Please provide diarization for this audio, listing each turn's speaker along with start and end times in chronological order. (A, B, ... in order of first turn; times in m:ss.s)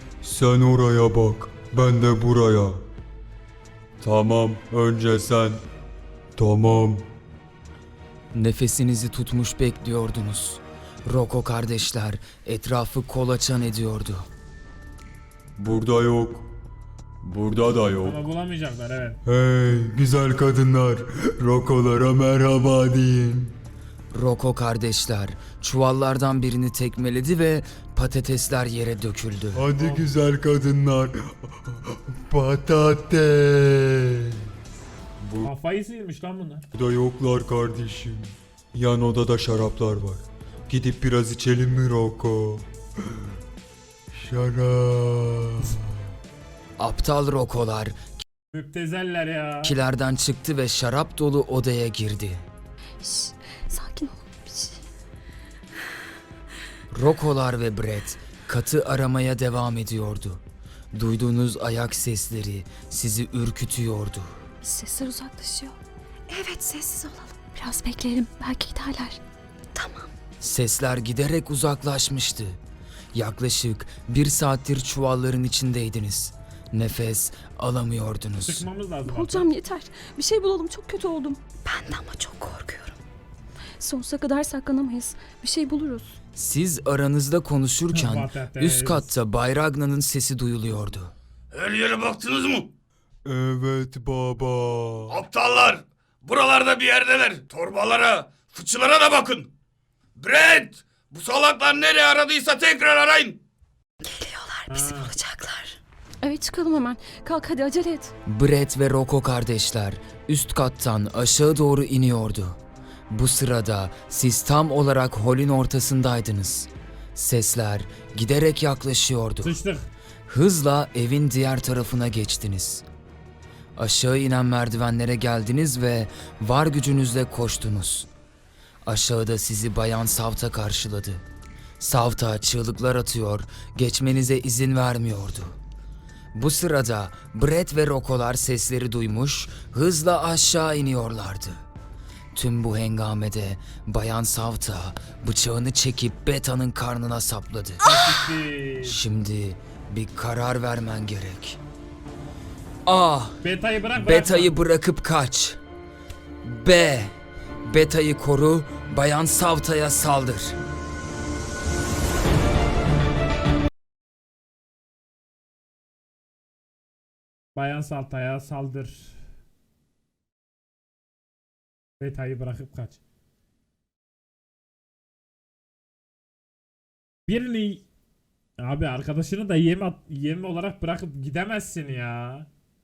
0:00.2-0:02.8 A
0:04.0-0:05.6 A
0:06.4-0:07.1 A
0:08.3-0:14.3 B
0:15.6-0:16.5 A
0:17.2-0:18.2 A
0:18.0-0:19.2 C
0:19.2-0:23.5 A
0:24.1-0:29.7 B
0:29.5-0:34.4 A
0:29.8-0:30.1 C
0:35.2-0:35.5 A
0:35.4-0:36.7 C
0:36.8-0:43.2 A
0:44.1-0:45.8 A
0:46.8-0:48.0 B
0:48.5-0:49.8 C
0:49.6-0:52.4 B
0:53.0-0:54.8 D
0:56.9-1:00.4 B
1:00.9-1:04.4 B
1:04.6-1:05.8 D
1:06.3-1:09.2 D
1:09.8-1:10.1 D
1:10.4-1:12.6 B
1:13.1-1:18.7 B
1:18.4-1:19.5 C
1:19.1-1:23.0 D
1:23.8-1:26.1 D
1:26.4-1:31.1 B
1:27.9-1:29.1 C
1:31.5-1:32.7 E
1:33.3-1:35.2 A
1:35.1-1:39.5 E
1:40.2-1:43.4 E
1:44.1-1:48.1 D
1:44.7-1:45.1 C
1:48.2-1:52.6 B
1:53.1-1:59.6 B
1:59.4-1:59.9 C
2:00.3-2:02.8 B
2:03.8-2:08.1 B
2:08.8-2:11.2 B
2:11.8-2:15.6 B
2:16.3-2:21.6 B
2:22.3-2:28.2 B
2:27.8-2:29.0 C
2:28.8-2:31.6 B
2:32.9-2:33.4 B
2:33.4-2:34.6 C
2:33.9-2:35.6 B
2:36.4-2:40.6 B
2:47.6-2:49.2 C
2:52.0-2:53.0 C
2:57.3-2:57.8 C
2:58.6-3:02.5 C